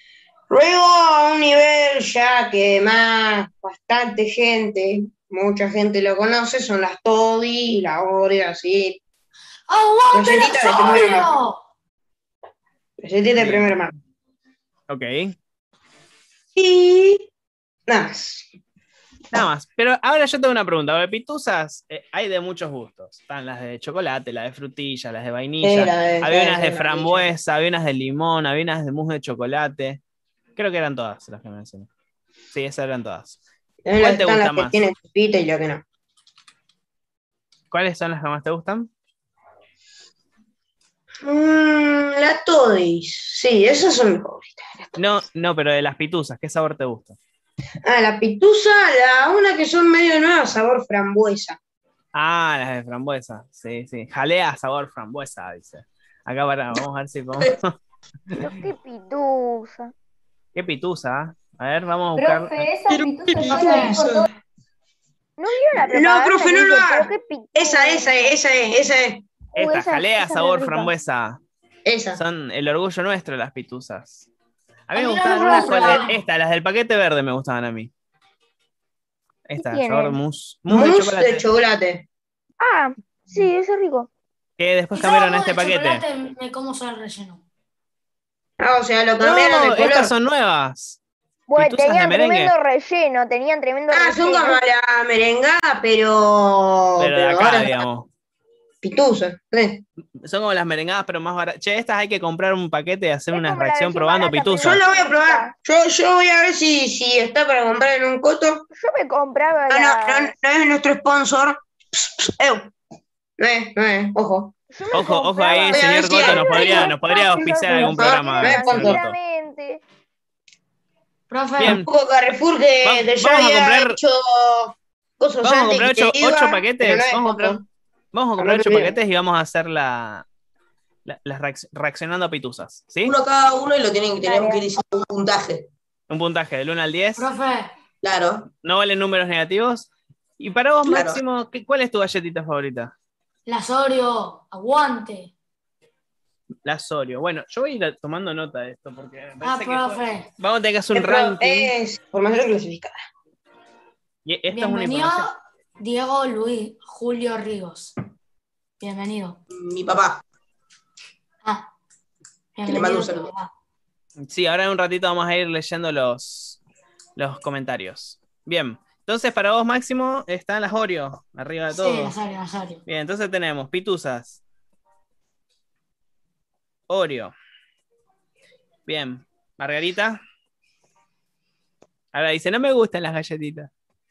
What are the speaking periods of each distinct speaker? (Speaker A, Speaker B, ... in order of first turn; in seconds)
Speaker A: 0.5-9.0, 10.1-11.3, 13.0-13.9, 16.5-17.3, 17.9-18.5, 25.6-27.3, 33.8-35.8, 41.2-45.0, 47.8-51.6, 65.8-69.2, 71.8-72.2, 80.7-82.0, 88.6-90.1, 93.9-97.8, 98.8-99.8, 104.6-108.6, 109.7-112.7, 113.4-114.5, 115.7-116.9, 117.6-119.0, 121.6-127.6, 128.4-129.0, 150.9-153.0
Speaker B: 9.7-11.6, 63.5-64.0, 74.9-76.2, 84.9-87.4, 121.3-121.8, 137.2-137.7, 143.5-145.3, 149.4-150.3, 154.5-157.9, 158.8-159.4, 161.4-161.7, 162.6-163.5, 171.7-172.8
Speaker C: 13.3-13.8, 14.9-15.3, 19.3-30.0, 30.6-31.9, 32.5-33.4, 34.0-34.8, 37.7-38.9, 45.0-47.2, 52.1-57.8, 60.5-62.7, 69.5-71.4, 72.2-74.3, 74.9-77.9, 79.5-81.4, 84.6-86.0, 89.2-91.0, 91.5-92.5, 97.0-98.1, 100.2-104.8, 114.9-119.2, 121.6-121.9, 122.8-124.0, 125.4-127.6, 128.1-130.2, 131.0-133.2, 136.1-137.3, 138.6-142.9, 146.6-151.7, 154.2-155.3, 164.2-166.6, 167.2-172.2, 172.9-174.4, 176.9-177.3, 178.9-180.2, 182.1-183.7
Speaker D: 58.4-59.9, 65.4-68.3, 69.5-70.9, 79.6-80.2, 82.6-84.1, 91.5-94.6, 103.3-105.5, 108.7-110.3, 114.7-119.8, 134.2-134.7
Speaker E: 62.1-64.3
Speaker F: 62.9-64.2, 133.0-135.7, 138.0-138.5, 140.8-141.2, 159.5-160.2, 162.6-163.3